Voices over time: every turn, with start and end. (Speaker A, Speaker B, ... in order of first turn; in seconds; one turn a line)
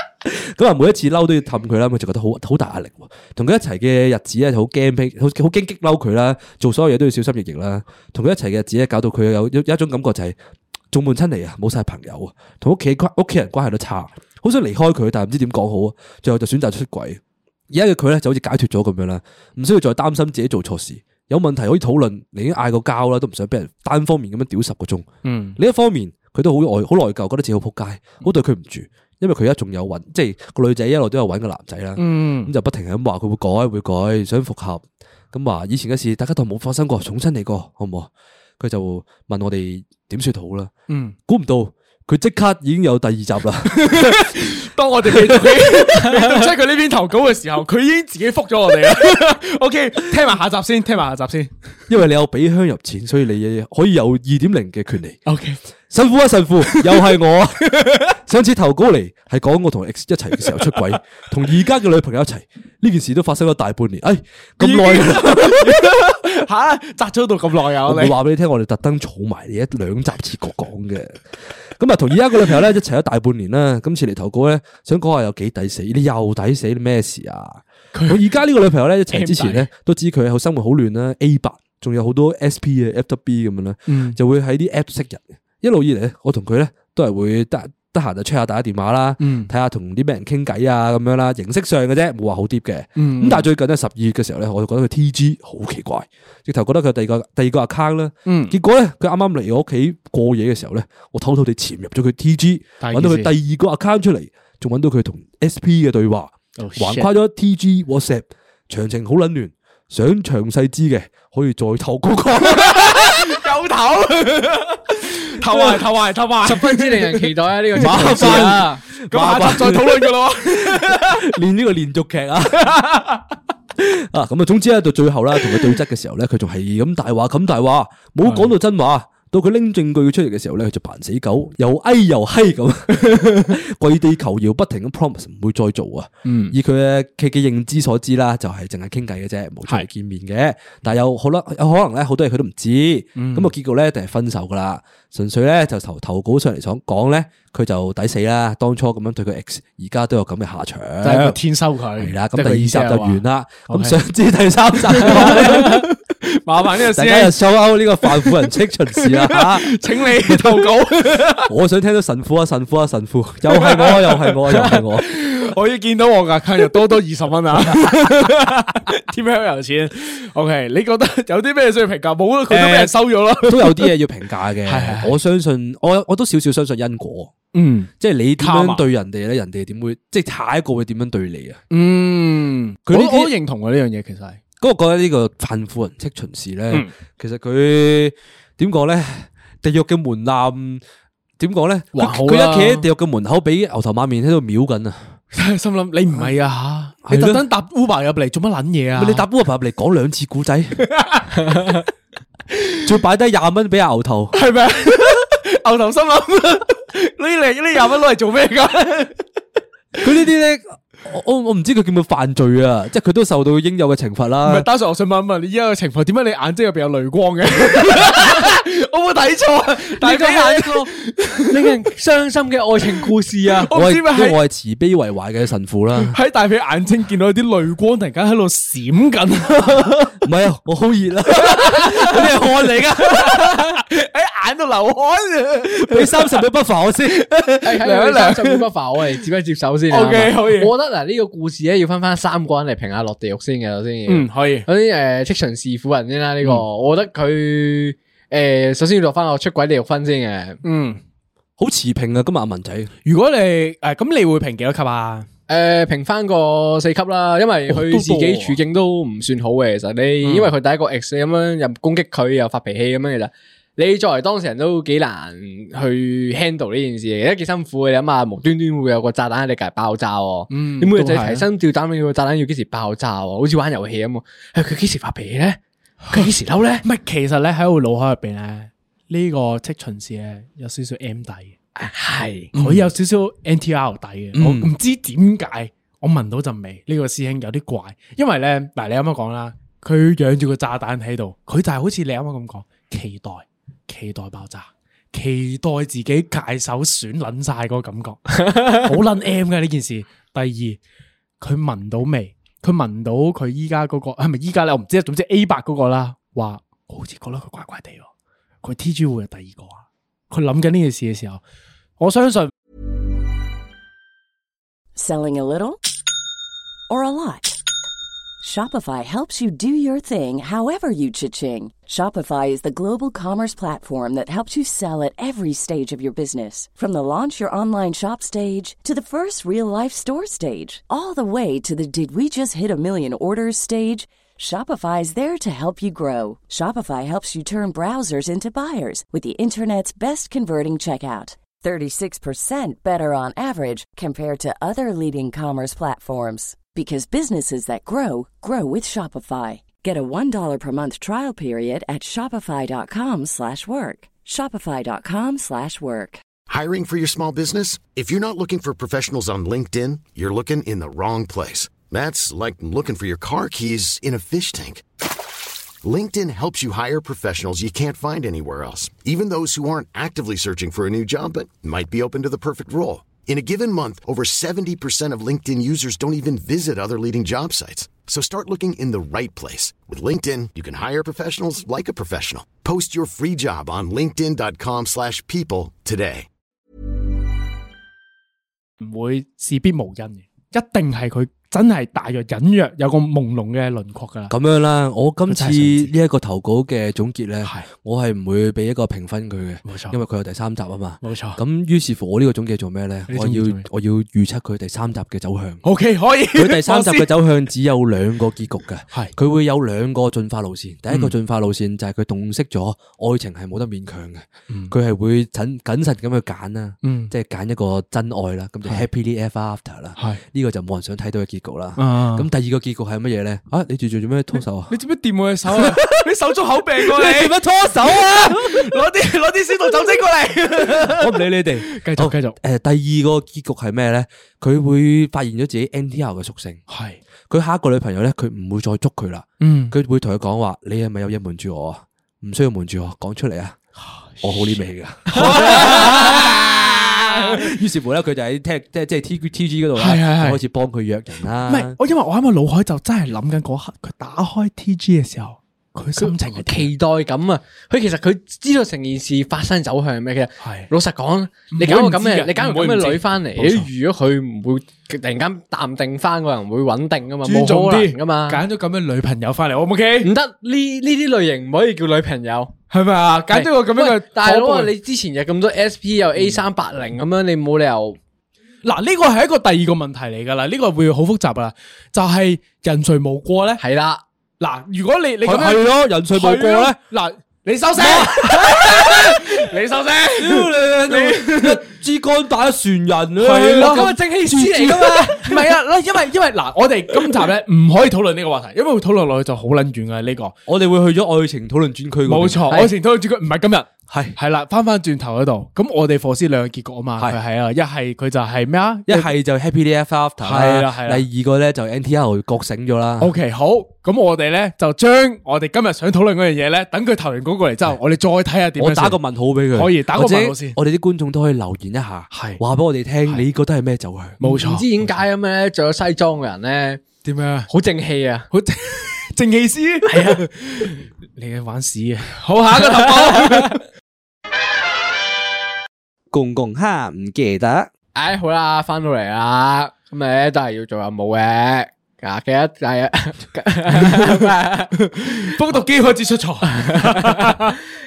Speaker A: 0.2-10.4
Speaker A: 10.9-25.1
Speaker B: 25.2-25.6
Speaker A: 25.6-40.7
Speaker B: 32.0-32.5
Speaker B: 40.9-41.2
Speaker A: 41.3-44.4
Speaker B: 43.7-51.5
Speaker A: 45.0-45.8
Speaker A: 51.9-55.2
Speaker B: 55.3-55.6
Speaker A: 55.9-66.0
Speaker B: 56.6-57.2
Speaker B: 57.7-58.1
Speaker B: 64.6-68.2
Speaker A: 67.9-71.2
Speaker A: 71.8-113.4
Speaker B: 77.9-78.3
Speaker B: 79.1-79.7
Speaker B: 83.9-84.2
Speaker B: 89.2-89.5
Speaker B: 93.0-93.5
Speaker B: 98.3-98.6
Speaker B: 102.8-103.3
Speaker B: 106.6-107.1
Speaker B: 112.5-121.3
Speaker A: 115.5-115.8
Speaker C: 116.5-118.8
Speaker A: 117.8-122.8
Speaker B: 122.5-123.2
Speaker A: 123.8-151.4
Speaker B: 128.2-128.5
Speaker B: 133.0-133.5
Speaker B: 136.2-136.6
Speaker B: 143.2-143.5
Speaker B: 151.0-154.0
Speaker A: 152.0-155.9
Speaker B: 154.9-157.4
Speaker A: 156.8-160.8
Speaker B: 158.0-161.5
Speaker A: 161.4-165.1
Speaker B: 163.5-173.9
Speaker A: 172.5-177.3
Speaker B: 174.7-175.2
Speaker B: 177.5-178.8
Speaker A: 178.0-181.6
Speaker B: 181.7-184.4
Speaker A: 182.9-183.3
Speaker A: 184.6-190.8
Speaker A: 191.4-195.1
Speaker B: 191.9-192.8
Speaker B: 195.3-199.2
Speaker A: 197.1-197.4
Speaker A: 198.9-200.9
Speaker B: 200.8-201.8
Speaker B: 202.5-202.8
Speaker A: 202.8-204.4
Speaker B: 204.3-209.2
Speaker A: 210.0-214.7
Speaker B: 214.4-221.7
Speaker C: 220.0-220.9
Speaker C: 221.4-223.7
Speaker B: 223.5-224.4
Speaker A: 223.7-226.2
Speaker B: 226.0-229.9
Speaker A: 229.6-233.6
Speaker B: 231.4-232.4
Speaker B: 233.0-236.5
Speaker A: 235.8-237.8
Speaker C: 237.6-250.6
Speaker B: 237.8-238.6
Speaker B: 239.9-240.7
Speaker B: 244.1-244.7
Speaker B: 250.6-251.0
Speaker A: 251.6-252.9
Speaker B: 253.1-255.3
Speaker C: 255.5-276.9
Speaker B: 257.7-258.6
Speaker B: 260.2-260.5
Speaker B: 270.5-271.5
Speaker B: 276.8-281.6
Speaker C: 281.8-282.5
Speaker A: 282.5-282.9
Speaker B: 282.5-300.8
Speaker A: 284.3-284.7
Speaker B: 301.4-308.1
Speaker B: 308.6-311.4
Speaker B: 312.0-312.5
Speaker D: 314.9-315.8
Speaker D: 316.9-317.6
Speaker D: 318.4-356.2
Speaker E: 356.5-364.9
Speaker E: 365.8-386.3
Speaker B: 388.8-394.3
Speaker A: 394.3-405.6
Speaker B: 395.3-395.9
Speaker B: 397.4-397.7
Speaker B: 399.6-400.0
Speaker B: 401.0-401.4
Speaker B: 403.1-403.7
Speaker B: 405.6-407.1
Speaker A: 406.3-424.7
Speaker B: 410.9-411.1
Speaker B: 416.8-417.1
Speaker B: 420.0-420.2
Speaker B: 421.8-422.3
Speaker B: 424.7-432.4
Speaker A: 425.5-425.9
Speaker A: 426.8-428.8
Speaker A: 430.6-436.6
Speaker B: 436.7-437.0
Speaker A: 437.3-443.6
Speaker B: 439.4-439.8
Speaker B: 443.8-446.4
Speaker A: 444.2-451.8
Speaker B: 447.2-447.5
Speaker B: 449.8-450.4
Speaker B: 451.5-456.7
Speaker C: 456.0-468.4
Speaker B: 460.4-460.7
Speaker B: 461.5-463.7
Speaker B: 467.2-470.1
Speaker C: 470.0-472.5
Speaker B: 472.7-474.7
Speaker C: 473.3-478.0
Speaker B: 478.6-483.6
Speaker C: 483.6-484.0
Speaker B: 484.4-491.6
Speaker A: 485.2-486.8
Speaker A: 487.8-489.4
Speaker A: 490.2-494.9
Speaker B: 493.2-500.4
Speaker C: 493.5-495.5
Speaker A: 500.5-502.5
Speaker B: 502.1-509.1
Speaker A: 503.9-504.2
Speaker A: 508.9-513.1
Speaker B: 510.2-511.0
Speaker B: 513.0-519.0
Speaker A: 518.6-524.2
Speaker B: 519.5-520.6
Speaker B: 522.1-522.4
Speaker B: 524.2-524.9
Speaker C: 524.2-526.9
Speaker B: 527.0-527.5
Speaker C: 527.5-528.3
Speaker B: 528.3-533.6
Speaker C: 529.9-530.2
Speaker C: 532.6-533.5
Speaker A: 536.1-537.7
Speaker C: 538.0-544.7
Speaker B: 544.8-547.5
Speaker C: 546.5-547.6